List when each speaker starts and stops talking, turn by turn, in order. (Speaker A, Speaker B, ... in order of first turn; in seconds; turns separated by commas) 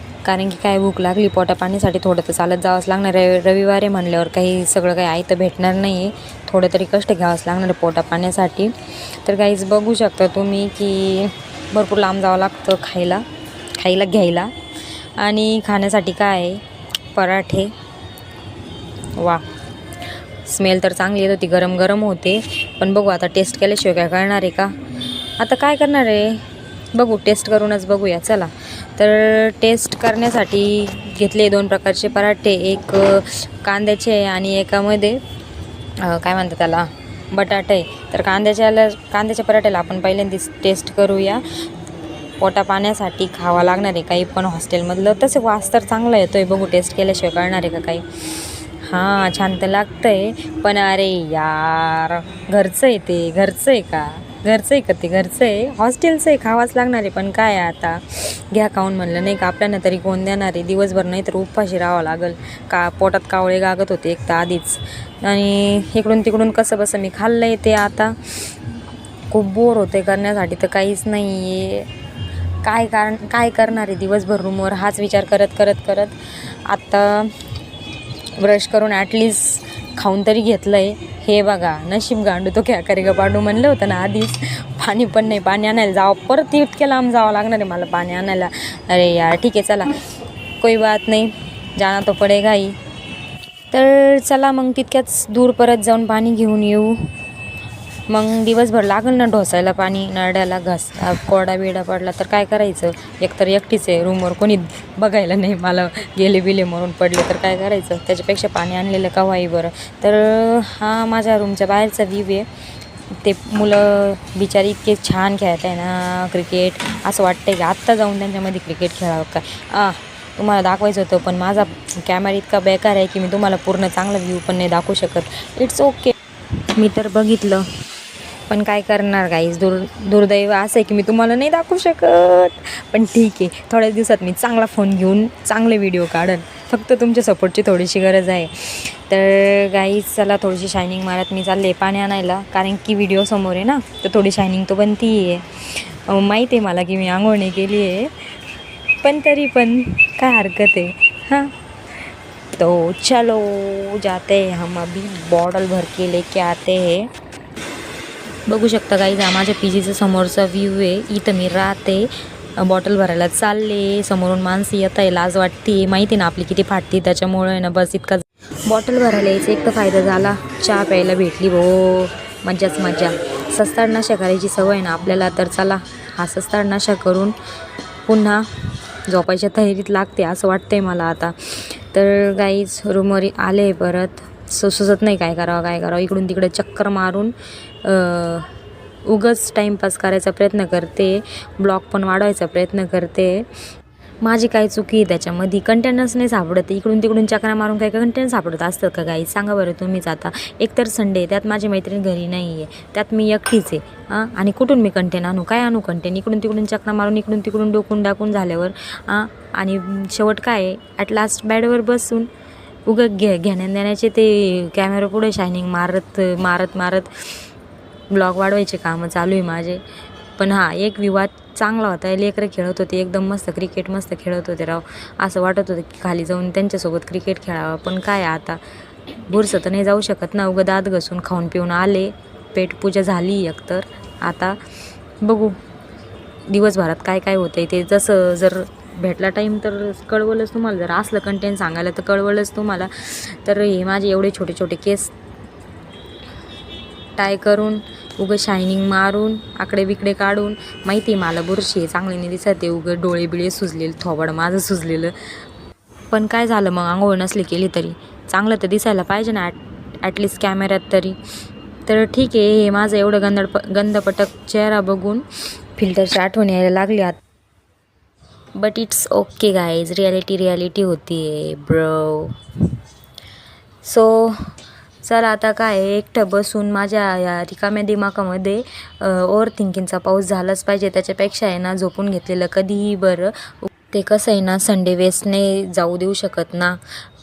Speaker A: 0.2-13.2, Speaker A: 13.8-14.5, Speaker A: 15.2-17.7, Speaker A: 19.2-19.4, Speaker A: 20.4-24.8, Speaker A: 25.4-35.2, Speaker A: 36.0-41.4, Speaker A: 42.4-68.2, Speaker A: 69.3-71.9, Speaker A: 72.6-77.3, Speaker A: 78.4-90.0, Speaker A: 90.6-92.8, Speaker A: 93.7-97.1, Speaker A: 98.1-112.5, Speaker A: 113.1-126.2, Speaker A: 126.7-127.7, Speaker A: 128.5-148.3, Speaker A: 149.0-151.5, Speaker A: 152.6-157.1, Speaker A: 158.5-177.4, Speaker A: 178.1-188.5, Speaker A: 189.1-193.4, Speaker A: 194.2-212.3, Speaker A: 212.9-217.3, Speaker A: 218.1-219.8, Speaker A: 220.4-228.6, Speaker A: 229.2-234.6, Speaker A: 235.2-235.6, Speaker A: 236.5-245.1, Speaker A: 247.2-255.1, Speaker A: 256.1-261.2, Speaker A: 261.9-265.2, Speaker A: 265.8-267.2, Speaker A: 268.6-272.4, Speaker A: 273.8-274.5, Speaker A: 275.0-286.8